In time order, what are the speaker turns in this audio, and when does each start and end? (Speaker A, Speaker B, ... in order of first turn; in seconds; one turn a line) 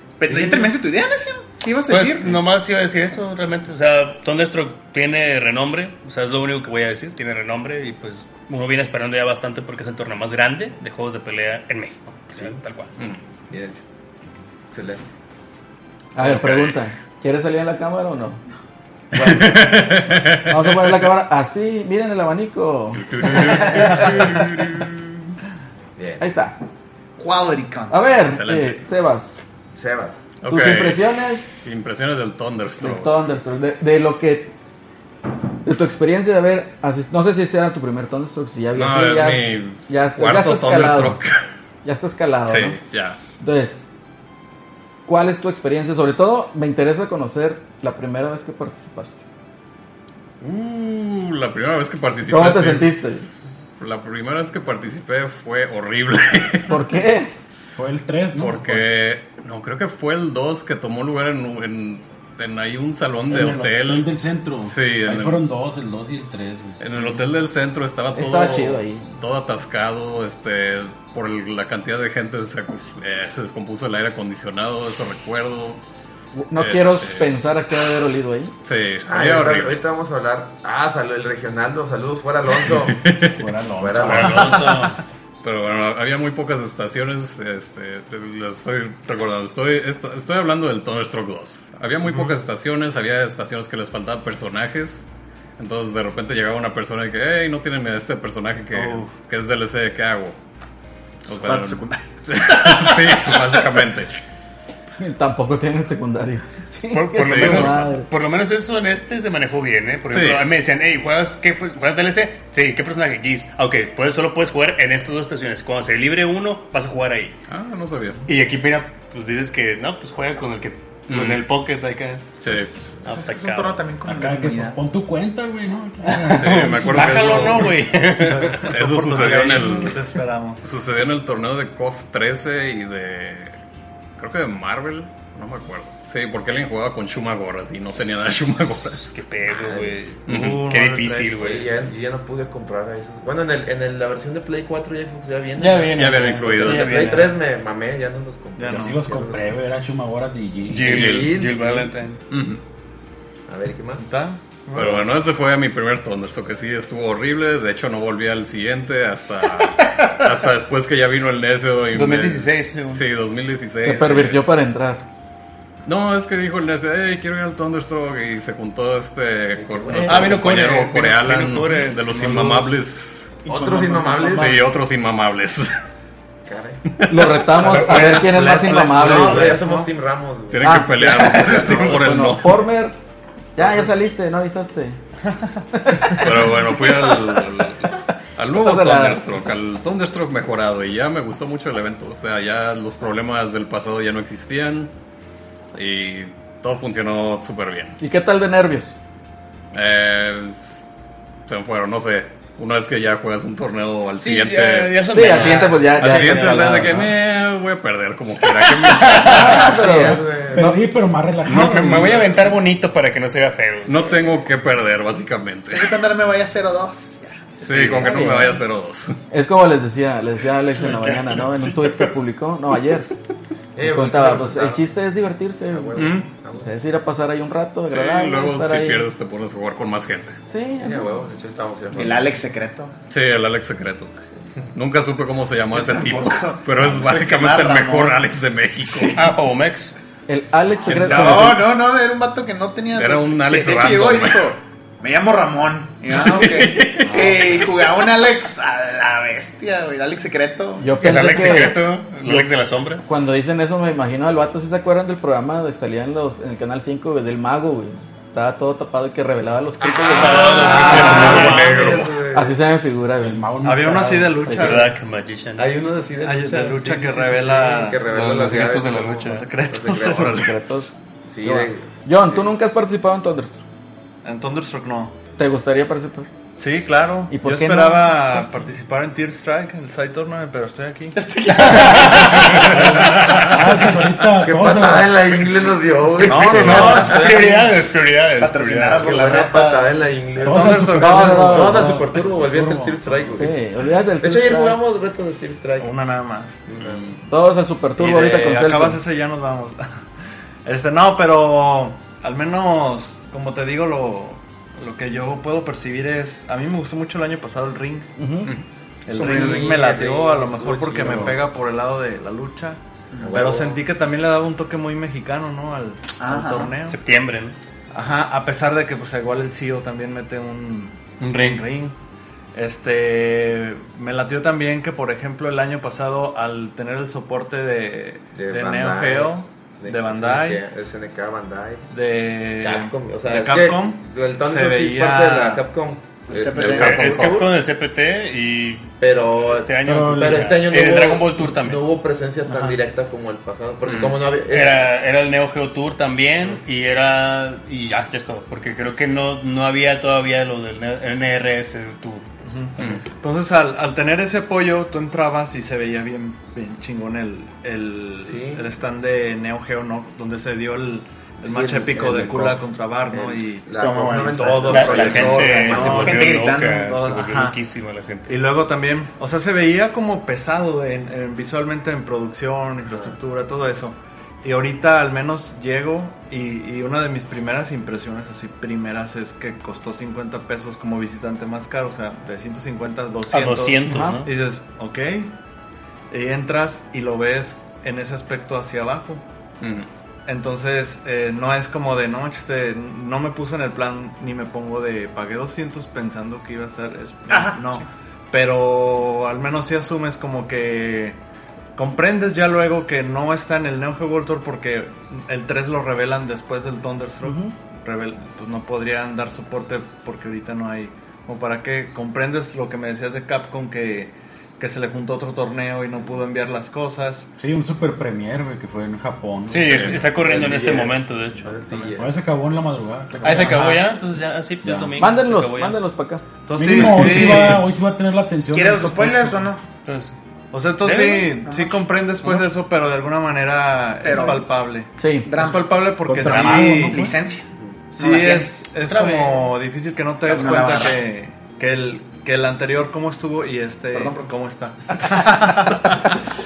Speaker A: 0.2-2.4
Speaker B: 0.4-0.6
Speaker C: 1.9-12.9
Speaker D: 13.5-13.8
Speaker D: 14.7-15.0
Speaker E: 16.1-18.4
Speaker F: 16.2-16.8
Speaker E: 19.1-23.7
Speaker F: 19.2-21.1
Speaker F: 22.9-25.1
Speaker D: 25.9-26.3
Speaker E: 26.2-26.6
Speaker A: 27.2-28.2
Speaker E: 27.9-29.4
Speaker F: 28.2-28.8
Speaker D: 29.7-30.2
Speaker F: 30.4-31.0
Speaker E: 30.5-31.6
Speaker F: 31.6-33.2
Speaker E: 32.8-34.5
Speaker E: 35.6-41.2
Speaker F: 38.7-41.5
Speaker E: 41.8-42.8
Speaker F: 42.5-43.2
Speaker E: 43.4-43.8
Speaker E: 45.0-49.2
Speaker F: 50.4-52.9
Speaker E: 52.3-53.3
Speaker F: 53.8-56.8
Speaker E: 56.7-57.3
Speaker G: 57.8-58.9
Speaker F: 58.3-64.1
Speaker G: 63.3-67.1
Speaker F: 64.6-65.5
Speaker F: 66.8-75.8
Speaker E: 68.1-69.1
Speaker E: 76.3-78.5
Speaker F: 76.5-77.3
Speaker F: 78.6-79.8
Speaker D: 79.0-83.0
Speaker F: 82.7-83.5
Speaker G: 83.3-84.6
Speaker D: 83.8-84.6
Speaker C: 84.0-85.0
Speaker F: 84.0-84.7
Speaker F: 85.4-95.0
Speaker B: 92.1-92.3
Speaker F: 95.6-100.4
Speaker B: 98.7-99.1
Speaker F: 101.2-104.1
Speaker A: 101.3-103.8
Speaker E: 105.0-108.1
Speaker C: 106.9-117.3
Speaker F: 107.2-107.9
Speaker F: 110.1-110.5
Speaker F: 117.5-118.2
Speaker C: 118.3-122.2
Speaker F: 121.1-121.4
Speaker F: 122.4-123.2
Speaker A: 123.0-124.8
Speaker C: 123.0-123.9
Speaker G: 124.0-127.8
Speaker C: 126.0-128.7
Speaker F: 126.2-127.9
Speaker B: 128.2-130.7
Speaker F: 128.7-130.0
Speaker F: 130.6-133.6
Speaker F: 134.2-139.2
Speaker C: 139.1-141.7
Speaker D: 139.5-140.2
Speaker F: 140.3-140.6
Speaker B: 140.3-141.4
Speaker D: 141.4-149.6
Speaker C: 145.6-147.3
Speaker F: 145.9-147.1
Speaker B: 146.6-147.2
Speaker B: 148.6-148.9
Speaker G: 148.7-151.2
Speaker C: 150.7-152.2
Speaker D: 150.8-151.9
Speaker B: 151.5-152.0
Speaker F: 152.3-152.6
Speaker D: 153.5-154.1
Speaker B: 154.0-155.1
Speaker F: 154.7-164.5
Speaker C: 161.9-163.0
Speaker E: 163.8-165.0
Speaker F: 165.8-173.4
Speaker D: 169.5-170.4
Speaker C: 170.0-172.7
Speaker B: 172.2-172.7
Speaker D: 173.4-174.7
Speaker F: 174.3-175.7
Speaker D: 176.4-176.8
Speaker F: 176.9-177.9
Speaker E: 177.1-179.6
Speaker B: 177.5-179.9
Speaker D: 178.8-182.0
Speaker F: 180.5-182.7
Speaker E: 180.6-182.9
Speaker E: 183.6-185.0
Speaker D: 183.6-183.9
Speaker E: 185.7-187.4
Speaker F: 186.1-194.9
Speaker E: 188.6-189.3
Speaker F: 195.7-197.9
Speaker E: 198.0-198.9
Speaker F: 199.7-200.6
Speaker F: 201.5-209.9
Speaker C: 204.2-205.9
Speaker E: 205.1-207.1
Speaker D: 205.3-206.7
Speaker C: 208.4-209.8
Speaker E: 209.2-210.8
Speaker D: 209.3-210.7
Speaker G: 210.5-212.4
Speaker C: 211.4-214.1
Speaker F: 213.8-215.9
Speaker D: 214.1-214.4
Speaker A: 215.7-218.0
Speaker F: 217.6-219.2
Speaker E: 217.9-218.6
Speaker E: 219.3-223.1
Speaker C: 220.9-221.7
Speaker D: 223.7-224.8
Speaker E: 223.8-229.1
Speaker D: 225.7-226.7
Speaker F: 225.9-226.3
Speaker F: 227.9-230.4
Speaker E: 230.5-231.2
Speaker D: 230.8-232.4
Speaker A: 231.9-232.9
Speaker F: 233.1-234.2
Speaker F: 234.7-239.2
Speaker A: 235.7-238.2
Speaker A: 238.8-239.3
Speaker C: 239.1-239.9
Speaker E: 240.3-241.6
Speaker F: 240.8-241.6
Speaker A: 240.8-250.9
Speaker F: 242.9-244.5
Speaker F: 246.1-247.6
Speaker E: 250.8-252.5
Speaker C: 251.0-253.1
Speaker E: 253.0-261.6
Speaker D: 259.8-262.6
Speaker C: 260.0-262.0
Speaker B: 260.4-262.0
Speaker F: 260.6-262.1
Speaker E: 262.3-264.9
Speaker G: 263.2-264.3
Speaker B: 263.6-264.9
Speaker C: 264.5-265.7
Speaker D: 265.6-270.5
Speaker B: 266.2-268.1
Speaker C: 268.1-269.5
Speaker B: 269.2-270.6
Speaker E: 270.3-270.9
Speaker D: 271.2-272.5
Speaker B: 271.4-271.7
Speaker E: 272.1-273.6
Speaker B: 274.2-275.2
Speaker E: 275.4-276.3
Speaker B: 276.6-283.3
Speaker E: 277.3-278.6
Speaker A: 281.1-283.1
Speaker C: 281.5-283.6
Speaker G: 283.2-285.2
Speaker D: 284.4-287.2
Speaker B: 286.2-287.7
Speaker C: 286.4-289.1
Speaker A: 288.4-289.9
Speaker D: 289.0-295.9
Speaker G: 290.4-293.5
Speaker B: 290.4-291.8
Speaker E: 291.0-292.1
Speaker E: 293.3-294.8
Speaker B: 295.8-296.6
Speaker D: 296.7-297.1
Speaker E: 297.3-299.0
Speaker B: 298.0-300.0
Speaker B: 300.6-308.1
Speaker E: 308.2-308.5
Speaker B: 309.1-312.8
Speaker D: 309.1-311.4
Speaker A: 309.1-309.9
Speaker G: 311.0-311.4
Speaker A: 313.1-313.5
Speaker D: 313.2-313.8
Speaker B: 313.3-317.0
Speaker A: 316.2-316.7
Speaker C: 316.9-317.6
Speaker B: 317.9-321.9
Speaker C: 321.2-321.6
Speaker B: 322.5-330.6
Speaker D: 328.3-331.9
Speaker B: 331.9-335.6
Speaker D: 332.6-337.5
Speaker A: 336.3-337.3
Speaker C: 336.6-341.8
Speaker F: 336.7-337.4
Speaker D: 339.0-344.9
Speaker G: 339.8-340.6
Speaker B: 342.5-342.8
Speaker F: 343.8-344.1
Speaker C: 344.5-352.4
Speaker B: 352.4-366.4
Speaker D: 358.2-358.7
Speaker D: 361.4-362.6
Speaker D: 363.1-366.2
Speaker A: 363.7-367.0
Speaker C: 364.7-368.4
Speaker B: 366.9-367.6
Speaker B: 368.3-385.3
Speaker D: 372.9-373.1
Speaker C: 383.3-384.3
Speaker E: 383.9-384.2
Speaker B: 386.1-389.2
Speaker F: 389.6-389.9
Speaker B: 390.3-401.2
Speaker A: 397.3-397.7
Speaker B: 401.8-417.3
Speaker E: 407.2-407.5
Speaker G: 417.4-420.4
Speaker C: 419.5-421.9
Speaker F: 419.7-420.1
Speaker D: 420.2-422.2
Speaker G: 421.9-423.8
Speaker C: 423.2-425.8
Speaker G: 424.6-425.1
Speaker E: 425.0-426.2
Speaker B: 426.4-427.7
Speaker G: 426.6-429.4
Speaker A: 426.8-427.5
Speaker A: 428.5-429.6
Speaker C: 429.8-430.1
Speaker B: 430.5-437.1
Speaker C: 430.8-431.3
Speaker A: 430.9-431.8
Speaker A: 434.0-434.5
Speaker E: 435.0-435.3
Speaker A: 435.3-437.4
Speaker G: 436.0-437.2
Speaker B: 437.9-446.1
Speaker A: 438.0-438.5
Speaker C: 438.8-439.5
Speaker A: 440.2-441.0
Speaker A: 443.9-444.3